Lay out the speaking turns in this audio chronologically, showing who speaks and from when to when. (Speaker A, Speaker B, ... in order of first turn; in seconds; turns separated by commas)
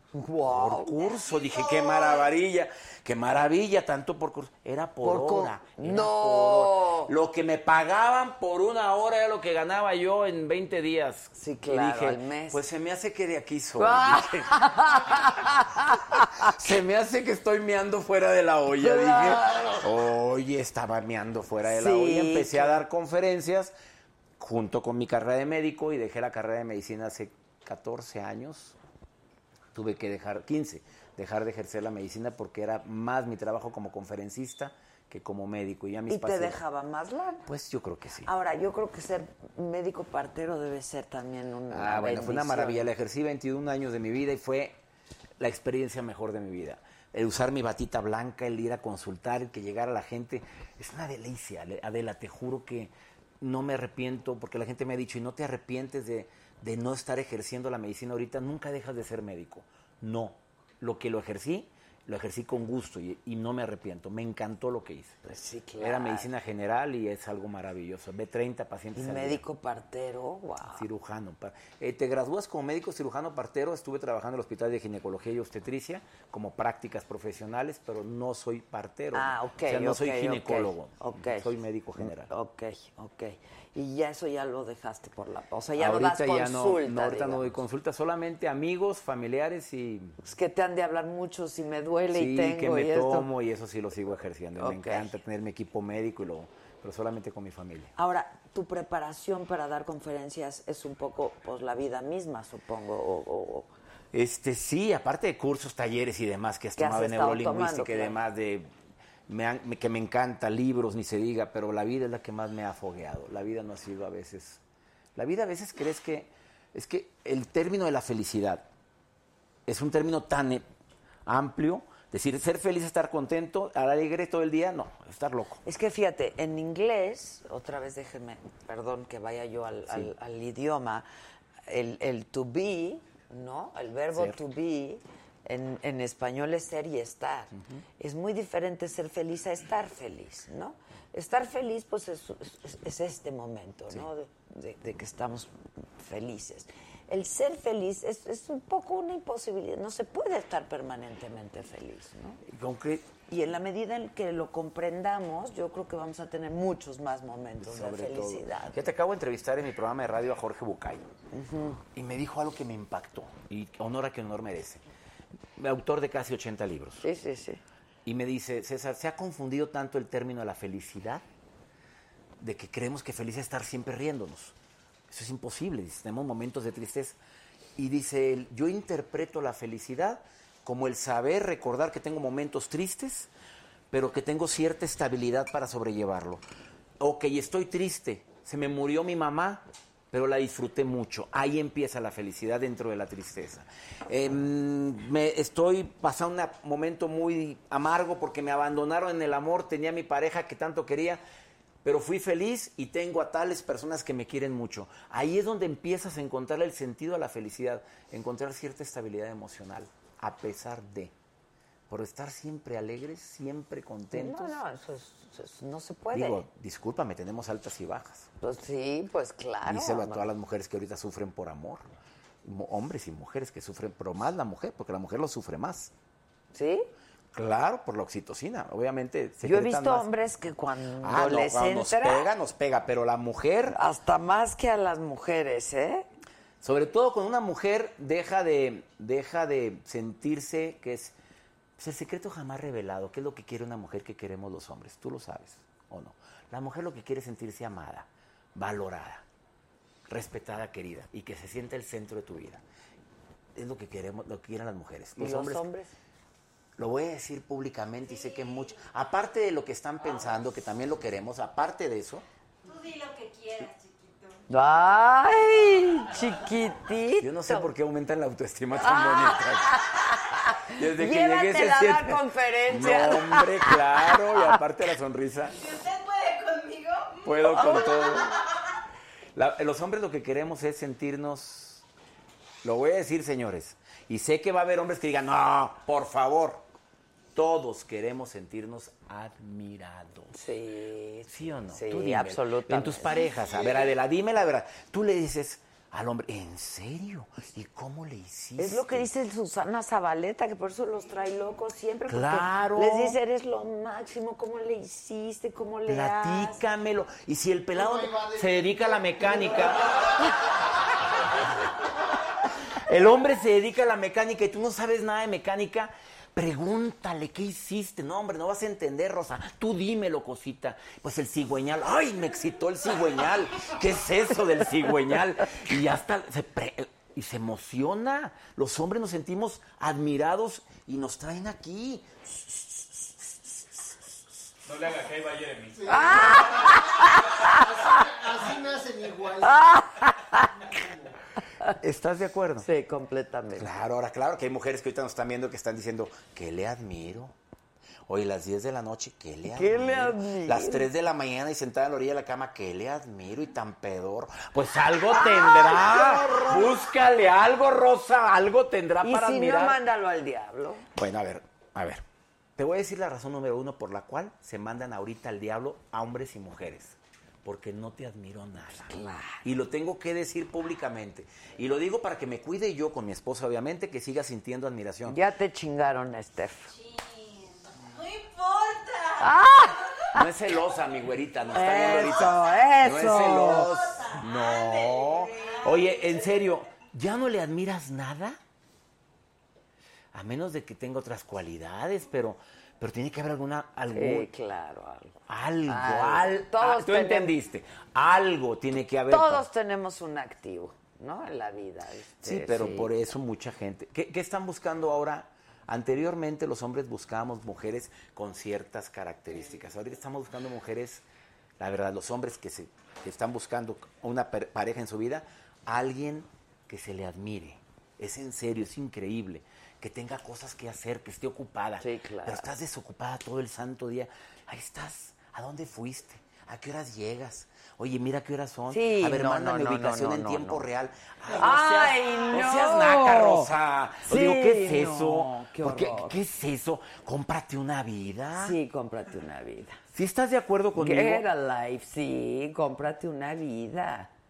Speaker A: 0.1-1.0, Speaker B: 0.5-14.5, Speaker C: 1.5-2.0, Speaker A: 5.0-7.1, Speaker A: 11.3-12.6, Speaker A: 13.8-16.5, Speaker B: 16.3-23.7, Speaker A: 18.8-19.9, Speaker A: 21.6-22.8, Speaker B: 24.4-28.8, Speaker B: 29.7-36.6, Speaker A: 36.1-37.5, Speaker B: 37.4-38.3, Speaker A: 38.2-42.9, Speaker B: 41.7-44.8, Speaker B: 45.4-65.2, Speaker A: 65.2-66.3, Speaker B: 65.8-69.4, Speaker A: 68.9-70.8, Speaker B: 70.7-82.3, Speaker A: 79.1-87.6, Speaker B: 85.8-90.2, Speaker A: 90.2-93.3, Speaker B: 92.1-97.9, Speaker A: 94.6-95.1, Speaker A: 98.0-103.7, Speaker B: 104.1-108.7, Speaker A: 106.8-108.2, Speaker B: 109.3-114.6, Speaker B: 115.2-118.7, Speaker B: 119.7-120.7, Speaker B: 121.2-125.6, Speaker A: 125.6-131.1, Speaker A: 131.7-152.4, Speaker B: 134.1-134.4, Speaker B: 137.6-137.8, Speaker B: 152.4-153.1, Speaker A: 153.3-158.8, Speaker B: 157.6-161.0, Speaker A: 161.3-161.8, Speaker B: 161.9-164.8, Speaker B: 165.6-167.1, Speaker A: 167.0-167.6, Speaker B: 168.0-171.2, Speaker B: 172.4-174.5, Speaker B: 175.1-177.2, Speaker B: 177.8-183.3, Speaker B: 183.9-186.4, Speaker B: 187.0-201.2, Speaker B: 201.8-211.1, Speaker B: 211.9-214.6, Speaker A: 214.1-216.4, Speaker B: 216.1-218.3, Speaker A: 218.4-220.2, Speaker B: 219.7-221.9, Speaker B: 222.4-225.9, Speaker A: 226.5-226.9, Speaker B: 227.3-230.1, Speaker A: 229.4-232.3, Speaker B: 231.0-233.8, Speaker A: 233.7-236.1, Speaker B: 236.6-241.1, Speaker B: 241.8-249.2, Speaker B: 250.1-252.6, Speaker B: 253.5-255.7, Speaker A: 255.2-255.9, Speaker B: 256.8-262.2, Speaker C: 258.2-258.7, Speaker C: 262.6-264.4, Speaker A: 264.5-267.7, Speaker B: 267.2-269.8, Speaker A: 268.8-274.6, Speaker B: 270.6-275.6, Speaker C: 275.5-278.4, Speaker B: 277.2-278.3, Speaker A: 277.5-278.1, Speaker B: 279.3-281.8, Speaker B: 282.6-286.6, Speaker B: 287.3-290.3, Speaker A: 290.3-293.1, Speaker B: 291.3-299.1, Speaker A: 298.6-306.6, Speaker B: 302.1-303.2, Speaker B: 305.9-309.9, Speaker D: 307.8-309.9, Speaker B: 312.8-333.3, Speaker E: 334.6-336.7, Speaker D: 335.8-339.6, Speaker A: 335.9-337.5, Speaker A: 339.4-340.5, Speaker D: 340.6-341.1, Speaker B: 341.8-342.7, Speaker A: 342.6-343.7, Speaker B: 343.5-347.3, Speaker B: 348.1-359.8, Speaker A: 349.4-350.9, Speaker A: 355.1-356.6, Speaker A: 359.0-360.9, Speaker B: 360.9-362.0, Speaker B: 362.6-375.2, Speaker A: 368.8-369.4, Speaker A: 375.1-376.7, Speaker C: 376.7-379.9, Speaker A: 379.2-380.2, Speaker B: 380.1-388.4, Speaker A: 381.5-383.7, Speaker C: 383.4-386.2, Speaker B: 390.1-394.3, Speaker A: 393.9-397.3, Speaker B: 395.3-399.5, Speaker A: 399.1-402.9, Speaker B: 402.2-411.0, Speaker B: 411.6-438.6, Speaker A: 421.8-422.5, Speaker A: 428.7-430.6, Speaker A: 431.3-433.5, Speaker A: 434.0-436.2, Speaker A: 438.4-439.8, Speaker B: 439.9-441.2, Speaker A: 440.7-444.1